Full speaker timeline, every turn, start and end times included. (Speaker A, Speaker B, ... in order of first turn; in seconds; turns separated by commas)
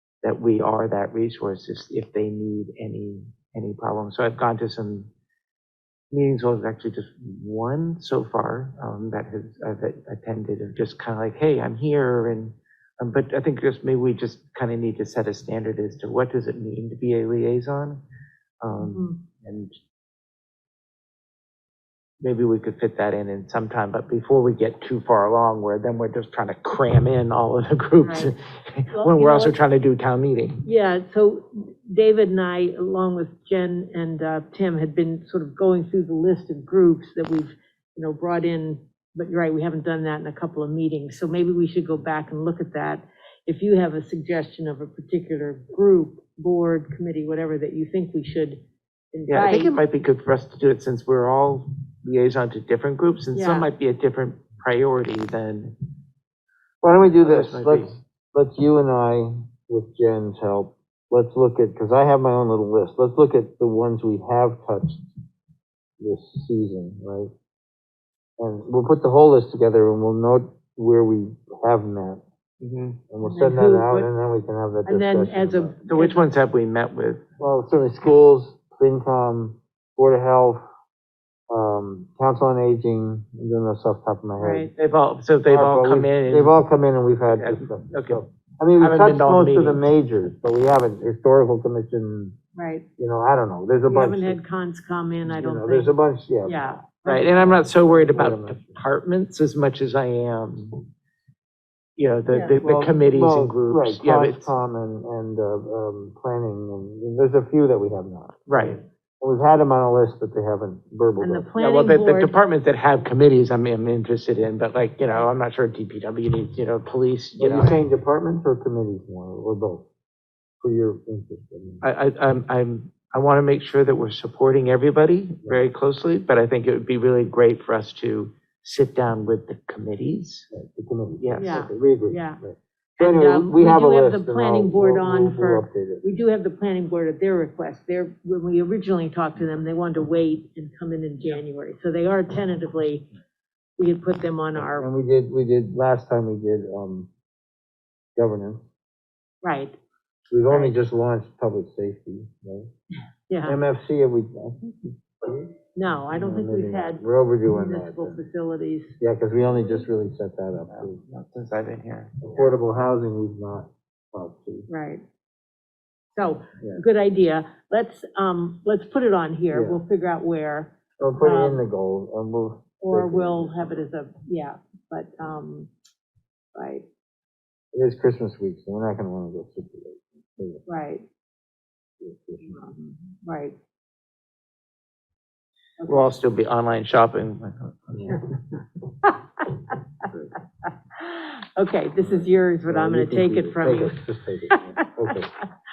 Speaker A: 0.2-5.1, Speaker A: 6.1-18.0, Speaker A: 18.6-19.7, Speaker B: 18.8-19.2, Speaker A: 22.2-30.6, Speaker B: 28.0-28.3, Speaker B: 28.9-29.6, Speaker B: 30.6-48.6, Speaker B: 49.1-49.8, Speaker A: 49.3-55.7, Speaker B: 53.3-53.7, Speaker C: 56.8-65.1, Speaker A: 57.1-57.9, Speaker C: 66.0-67.3, Speaker C: 68.4-72.2, Speaker A: 72.6-73.0, Speaker C: 73.1-75.7, Speaker B: 73.2-74.1, Speaker B: 74.9-76.3, Speaker A: 75.9-77.2, Speaker C: 77.4-80.6, Speaker C: 81.5-84.7, Speaker B: 84.4-84.7, Speaker A: 84.8-86.5, Speaker C: 85.5-92.4, Speaker A: 87.3-88.2, Speaker A: 88.8-89.9, Speaker B: 92.5-92.9, Speaker C: 93.0-94.4, Speaker B: 93.9-95.9, Speaker C: 95.3-96.8, Speaker B: 96.4-97.6, Speaker A: 97.0-100.9, Speaker C: 97.5-98.8, Speaker A: 102.0-104.5, Speaker B: 102.3-102.6, Speaker C: 102.5-111.5, Speaker A: 108.5-108.8, Speaker B: 111.2-112.3, Speaker A: 111.6-117.8, Speaker C: 117.4-119.9, Speaker C: 120.6-121.8, Speaker A: 121.8-130.5, Speaker C: 130.5-136.0, Speaker A: 131.2-131.7, Speaker B: 131.4-132.4, Speaker B: 133.0-143.1, Speaker B: 143.8-144.9, Speaker C: 144.6-147.1, Speaker C: 148.2-148.6, Speaker B: 149.4-149.8, Speaker C: 150.3-152.7, Speaker B: 150.5-150.7, Speaker B: 153.3-153.6, Speaker C: 153.4-155.5, Speaker B: 155.8-158.9, Speaker C: 156.1-158.2, Speaker C: 159.0-161.0, Speaker A: 160.7-162.1, Speaker C: 162.2-164.7, Speaker B: 164.7-165.0, Speaker B: 166.1-171.6, Speaker C: 169.5-169.8, Speaker C: 171.0-173.8, Speaker B: 172.8-175.7, Speaker B: 176.6-176.9, Speaker C: 177.7-180.6, Speaker B: 180.7-181.1, Speaker C: 182.0-182.8, Speaker B: 182.5-183.6, Speaker A: 185.8-188.3, Speaker B: 191.0-194.0, Speaker C: 192.0-195.3